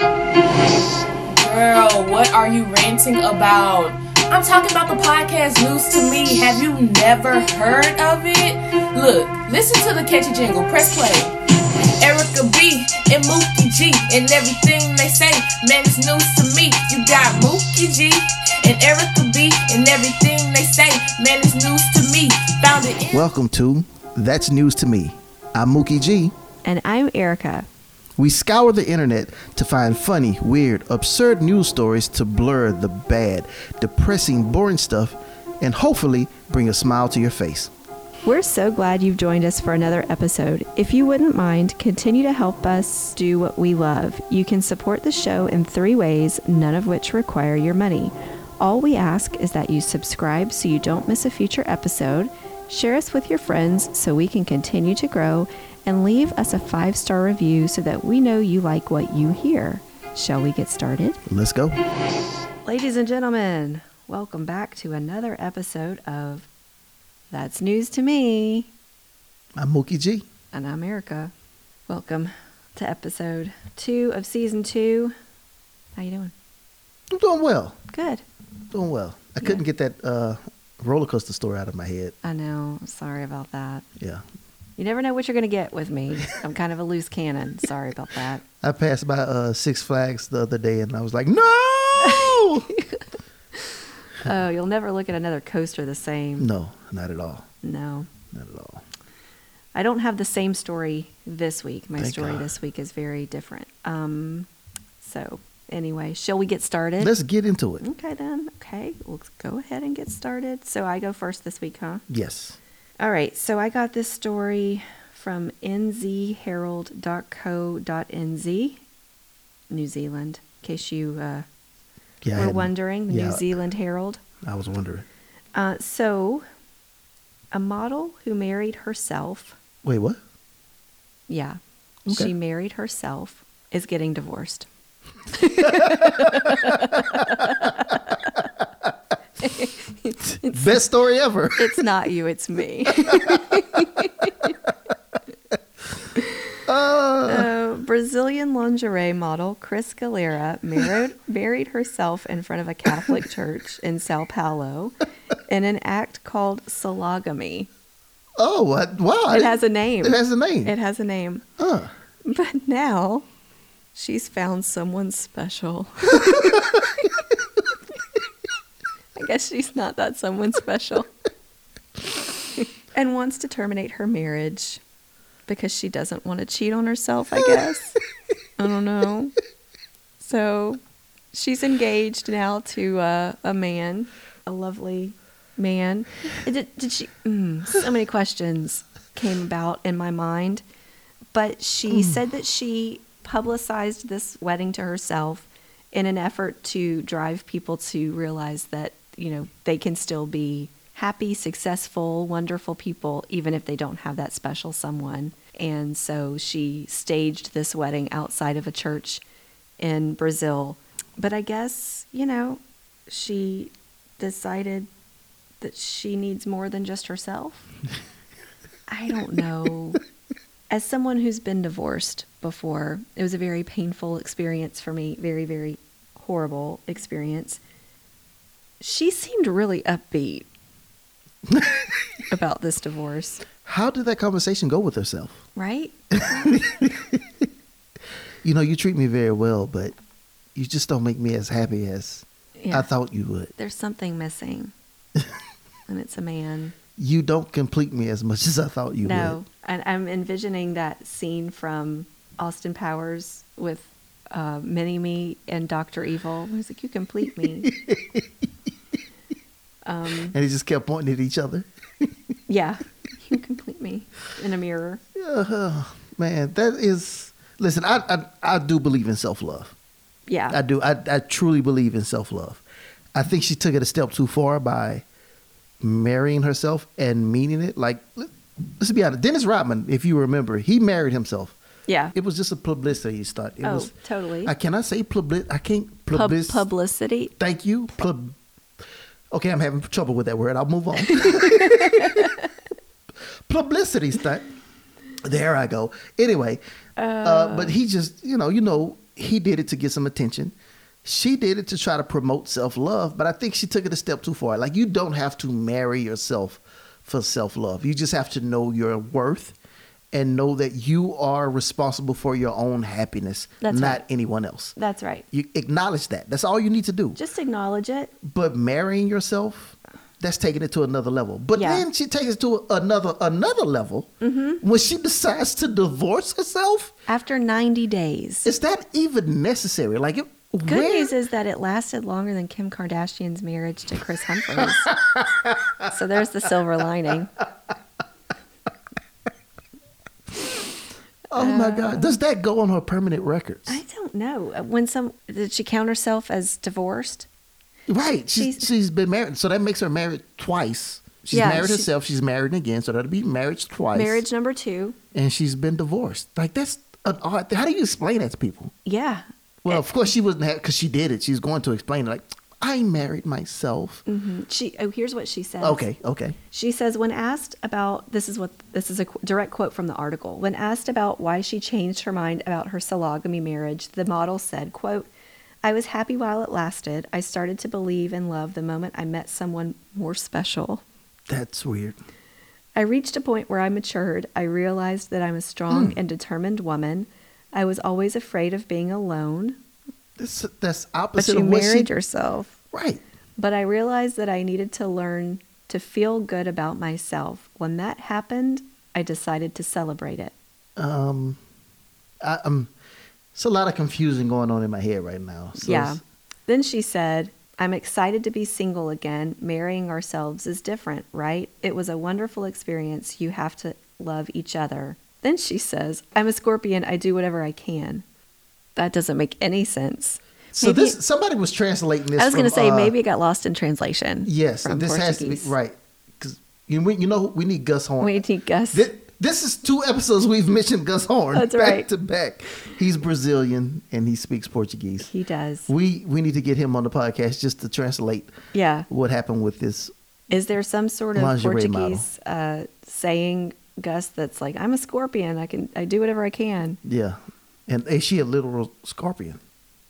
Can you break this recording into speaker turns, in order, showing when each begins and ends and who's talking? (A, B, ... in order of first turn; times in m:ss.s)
0:01.3-0:11.4 A
0:12.0-0:23.2 A
0:23.1-0:26.3 B
0:26.6-0:27.7 C
0:28.2-0:37.7 B
0:38.2-1:01.2 C
1:01.3-1:01.8 B
1:02.6-1:06.5 C
1:07.3-1:08.7 C
1:09.6-1:10.2 B
1:10.5-1:11.3 C
1:11.9-1:15.1 C
1:15.9-1:16.3 C
1:17.1-1:17.8 B
1:17.9-1:18.2 C
1:18.7-1:22.1 B
1:22.2-1:23.8 C
1:24.0-1:24.2 B
1:24.8-1:28.4 C
1:28.6-1:32.7 B
1:32.0-1:33.0 C
1:33.5-1:36.5 C
1:36.4-1:37.5 B
1:37.6-1:38.1 C
1:38.3-1:38.8 B
1:39.7-1:44.5 C
1:42.0-1:42.4 B
1:45.0-1:47.1 C
1:47.0-1:47.8 B
1:47.8-1:52.0 C
1:52.1-1:52.6 B
1:53.0-1:58.8 C
1:59.7-2:01.4 C
2:02.2-2:03.5 B
2:02.3-2:04.2 C
2:04.4-2:05.1 B
2:05.5-2:06.4 C
2:07.5-2:09.6 C
2:09.8-2:10.2 B
2:11.3-2:14.7 C
2:15.3-2:18.3 C
2:15.6-2:18.1 B
2:19.4-2:20.8 C
2:20.2-2:21.8 B
2:21.6-2:24.5 C
2:23.1-2:24.1 B
2:26.2-2:26.5 C
2:26.6-2:27.5 B
2:27.3-2:35.0 C
2:35.5-2:37.7 C
2:38.4-2:40.7 B
2:39.3-2:41.4 C
2:41.6-2:41.9 B
2:42.2-2:43.2 C
2:43.9-2:46.9 C
2:46.3-2:46.9 B
2:49.1-2:51.1 C
2:52.5-2:54.8 C
2:55.5-2:58.0 C
2:58.6-2:59.3 C
3:00.2-3:00.8 C
3:01.3-3:10.6 C
3:11.3-3:29.2 C
3:29.8-3:34.9 C
3:35.6-3:37.6 C
3:38.9-3:40.0 C
3:40.7-3:47.6 C
3:48.8-3:50.5 C
3:51.5-3:52.0 B
3:52.3-3:53.4 C
3:53.6-3:55.4 B
3:55.5-3:56.4 C
3:56.1-3:57.3 B
3:58.4-3:59.9 B
4:00.5-4:03.5 B
4:02.6-4:02.9 C
4:03.6-4:04.7 C
4:05.9-4:06.8 C
4:07.0-4:09.4 B
4:09.0-4:17.7 C
4:17.6-4:18.3 B
4:19.8-4:20.3 C
4:20.3-4:22.1 B
4:22.5-4:25.0 C
4:25.1-4:29.7 B
4:30.3-4:30.6 C
4:30.5-4:32.6 B
4:33.1-4:35.0 B
4:35.8-4:41.6 B
4:41.9-4:42.1 C
4:42.1-4:43.9 B
4:43.6-4:44.5 C
4:44.4-4:46.6 B
4:46.1-4:47.3 C
4:47.4-4:48.4 B
4:49.3-4:52.3 B
4:51.1-4:52.5 C
4:53.5-4:54.5 B
4:55.2-4:56.6 B
4:57.0-4:57.8 C
4:57.2-5:09.6 B
5:10.1-5:14.8 B
5:13.6-5:14.0 C
5:14.8-5:15.2 C
5:15.3-5:17.2 B
5:17.2-5:18.1 C
5:18.2-5:26.9 B
5:21.6-5:21.8 C
5:24.2-5:24.6 C
5:27.1-5:28.5 C
5:28.4-5:31.1 B
5:30.6-5:34.9 C
5:34.5-5:35.9 B
5:35.8-5:37.3 C
5:41.3-5:43.8 B
5:41.4-5:42.2 C
5:43.7-5:47.3 C
5:47.9-5:54.2 B
5:48.3-5:48.7 C
5:51.3-5:51.9 C
5:53.9-5:55.0 C
5:55.1-5:58.7 B
5:58.8-5:59.8 C
5:59.6-6:04.0 B
6:04.1-6:05.8 C
6:05.6-6:06.4 B
6:06.5-6:15.1 C
6:15.6-6:20.8 C
6:21.3-6:22.0 B
6:22.7-6:29.6 C
6:25.7-6:26.0 B
6:30.2-6:31.9 B
6:31.2-6:32.5 C
6:32.7-6:33.0 B
6:33.4-6:40.3 C
6:40.8-6:41.4 B
6:42.2-6:42.7 B
6:43.3-6:46.0 B
6:45.5-6:58.0 C
6:58.8-7:01.0 C
7:00.5-7:02.9 B
7:02.2-7:05.5 C
7:04.2-7:08.2 B
7:08.0-7:08.9 C
7:08.7-7:15.1 B
7:11.3-7:11.9 C
7:15.1-7:15.7 C
7:15.7-7:18.3 B
7:18.5-7:18.9 C
7:18.9-7:19.9 B
7:20.3-7:26.8 C
7:21.1-7:22.0 B
7:26.8-7:27.2 B
7:27.7-7:29.4 B